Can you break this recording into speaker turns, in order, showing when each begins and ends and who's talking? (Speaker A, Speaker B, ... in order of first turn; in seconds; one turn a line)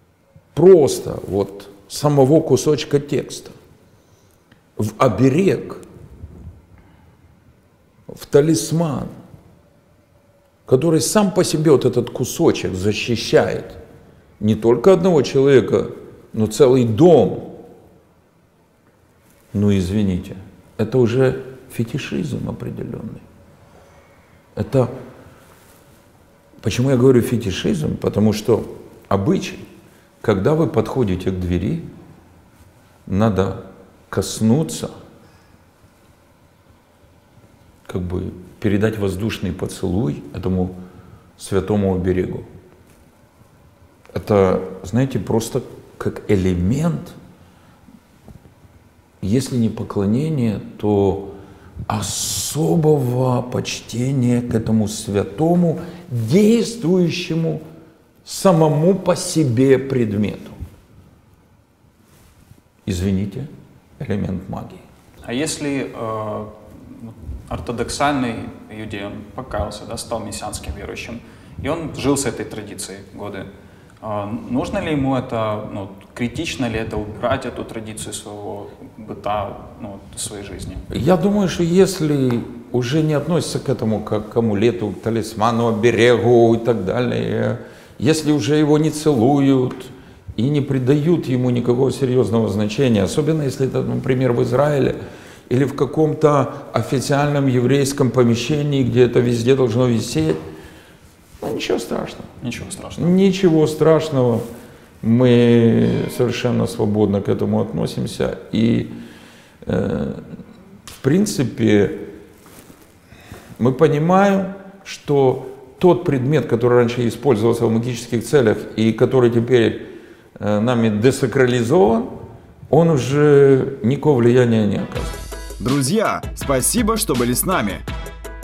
Speaker A: 0.5-3.5
Speaker A: 4.8-5.8
Speaker A: 8.1-9.1
Speaker A: 10.7-13.8
Speaker A: 14.4-17.6
Speaker A: 19.5-23.2
Speaker A: 24.6-24.9
Speaker A: 26.6-29.6
Speaker A: 30.2-31.9
Speaker A: 33.0-34.9
Speaker A: 37.9-40.8
Speaker A: 41.4-42.5
Speaker A: 44.1-47.1
Speaker A: 49.2-51.4
Speaker A: 51.9-57.6
Speaker A: 58.2-60.5
Speaker A: 62.9-63.5
Speaker A: 64.0-64.8
Speaker B: 65.2-73.5
Speaker B: 74.0-80.8
Speaker A: 80.9-95.0
Speaker A: 95.5-100.4
Speaker A: 101.4-102.3
Speaker B: 102.4-103.2
Speaker A: 103.0-104.4
Speaker A: 105.0-108.9
Speaker A: 109.6-110.2
Speaker A: 111.0-112.1
Speaker A: 113.6-122.2
Speaker A: 122.7-125.2
Speaker C: 125.6-127.8